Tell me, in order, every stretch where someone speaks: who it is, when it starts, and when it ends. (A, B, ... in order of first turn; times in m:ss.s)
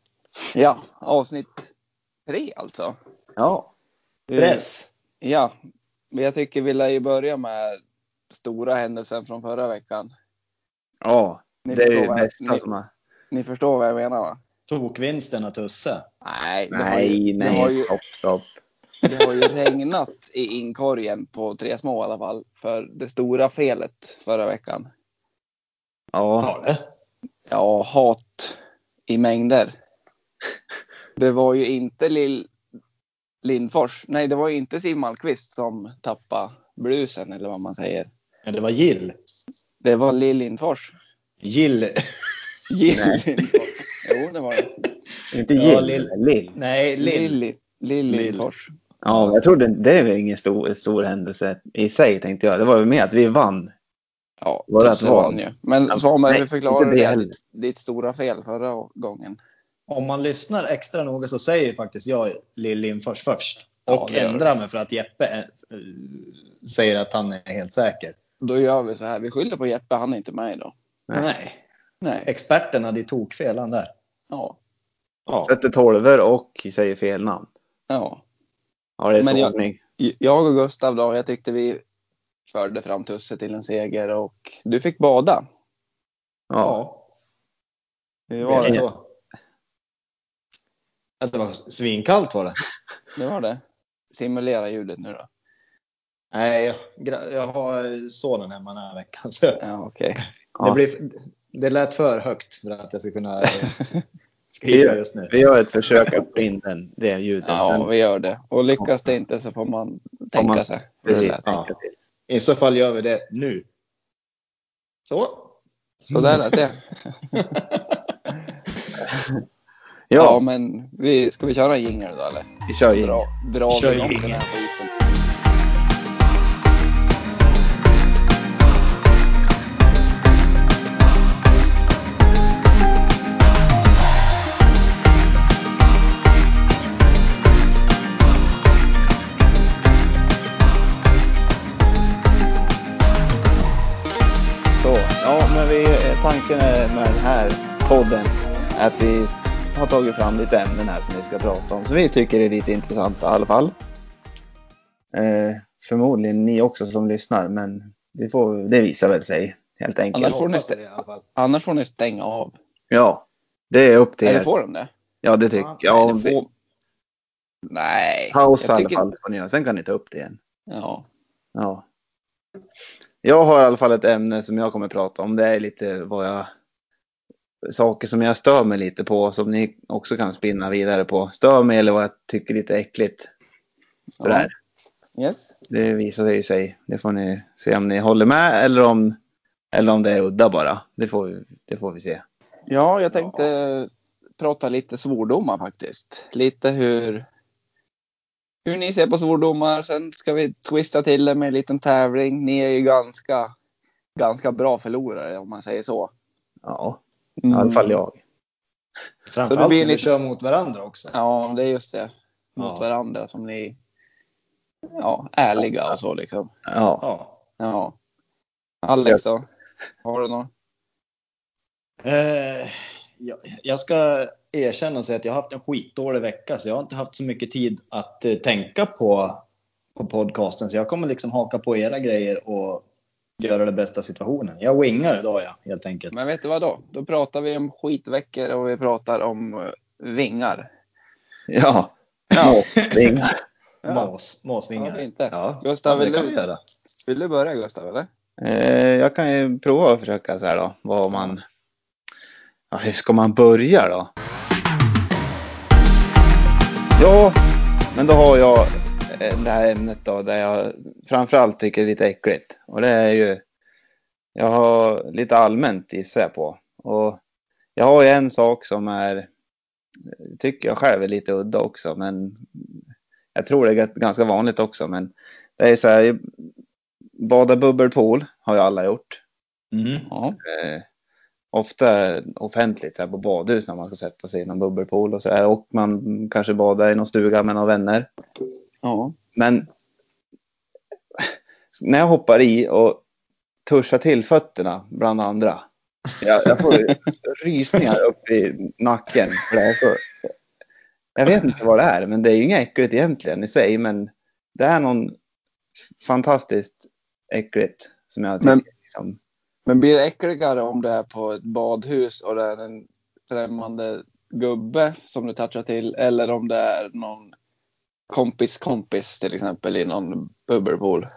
0:00.5-0:01.6 A
0:02.3-0:03.0 A
0:04.3-0:04.9 B
0:04.4-0:04.6 A
0:05.2-0:05.5 A
0:06.1-0:07.8 A
0:08.3-0:10.1 A
0:11.0-0:12.9 C
0:11.6-0:12.6 A
0:13.3-0:14.4 A
0:14.7-0:16.0 B
0:16.2-0:17.9 A
0:16.7-0:18.5 C
0:19.0-0:24.9 A
0:26.1-0:26.5 C
0:26.4-0:26.8 B
0:27.5-0:29.7 A
0:31.2-0:32.5 A
0:33.4-0:38.1 A
0:38.4-0:39.1 B
0:39.8-0:40.9 A
0:41.4-0:42.3 B
0:42.7-0:44.7 A
0:42.9-0:43.2 C
0:45.3-0:46.5 C
0:45.5-0:47.4 B
0:47.0-0:48.7 A
0:48.1-0:48.4 B
0:49.0-0:53.7 C
0:49.1-0:49.4 B
0:54.4-0:59.4 A
0:54.7-0:57.3 C
0:59.9-1:08.2 B
1:03.9-1:04.5 A
1:08.4-1:10.7 A
1:11.1-1:11.6 B
1:12.0-1:12.3 A
1:12.2-1:13.9 B
1:14.3-1:14.6 A
1:15.3-1:15.5 B
1:15.5-1:17.5 C
1:17.9-1:18.2 A
1:19.0-1:19.8 C
1:19.2-1:21.8 A
1:22.5-1:25.4 A
1:26.5-1:26.8 C
1:26.6-1:27.0 B
1:28.3-1:28.8 A
1:28.4-1:29.0 B
1:31.2-1:32.6 B
1:33.1-1:33.6 A
1:34.1-1:35.3 A
1:36.3-1:39.6 B
1:39.6-1:40.2 A
1:40.6-1:43.8 B
1:44.5-1:45.4 B
1:44.7-1:47.9 C
1:47.4-1:51.5 A
1:50.3-1:51.9 C
1:51.4-1:51.7 B
1:52.3-1:53.6 B
1:55.1-1:55.5 B
1:56.1-1:56.6 B
1:56.1-1:57.4 A
1:57.4-1:57.8 B
2:00.1-2:00.4 C
2:00.2-2:04.9 A
2:02.7-2:03.2 C
2:03.7-2:04.5 B
2:24.8-2:33.7 C
2:35.1-2:40.4 C
2:40.1-2:40.8 A
2:40.2-2:41.2 B
2:41.4-2:42.5 A
2:42.9-2:44.5 C
2:44.2-2:44.9 A
2:45.2-2:46.4 C
2:45.6-2:45.8 B
2:45.8-2:46.5 A
2:47.7-2:49.0 A
2:48.3-2:50.4 C
2:50.7-2:51.0 A
2:51.5-2:51.8 C
2:53.2-2:56.5 C
2:57.6-3:03.3 C
3:04.2-3:04.5 A
3:04.2-3:04.5 C
3:05.2-3:05.5 A
3:05.7-3:09.2 C
3:09.7-3:12.2 C
3:12.7-3:17.2 A
3:13.1-3:13.5 C
3:18.6-3:23.5 A
3:24.2-3:26.1 A
3:26.6-3:28.2 C
3:27.4-3:28.0 A
3:29.3-3:31.1 B
3:29.5-3:30.0 A
3:31.1-3:33.8 A
3:32.6-3:32.9 B
3:35.0-3:36.5 A
3:36.7-3:37.0 C
3:37.0-3:37.4 B
3:37.6-3:37.9 A
3:38.8-3:39.4 A
3:40.0-3:40.5 A
3:42.0-3:49.4 B
3:49.9-3:52.8 B
3:53.4-3:56.1 B
3:56.1-4:00.7 A
4:01.5-4:03.4 C
4:02.3-4:02.6 A
4:02.7-4:03.0 B
4:03.8-4:04.1 A
4:03.8-4:06.6 B
4:04.8-4:06.4 A
4:07.1-4:08.1 A
4:08.4-4:11.4 C
4:12.7-4:14.1 C
4:17.0-4:17.4 C
4:17.9-4:23.4 C
4:24.3-4:27.2 C
4:27.8-4:29.3 C
4:30.1-4:32.8 C
4:33.3-4:36.3 C
4:37.2-4:39.2 C
4:39.7-4:40.1 B
4:40.1-4:40.4 A
4:40.4-4:40.8 C
4:41.5-4:48.1 C
4:48.8-4:49.1 A
4:49.3-4:49.7 C
4:51.2-4:53.0 C
4:53.6-4:55.6 C
4:56.2-5:00.2 C
5:01.2-5:05.1 C
5:06.0-5:09.2 C
5:09.6-5:17.3 A
5:18.1-5:21.1 A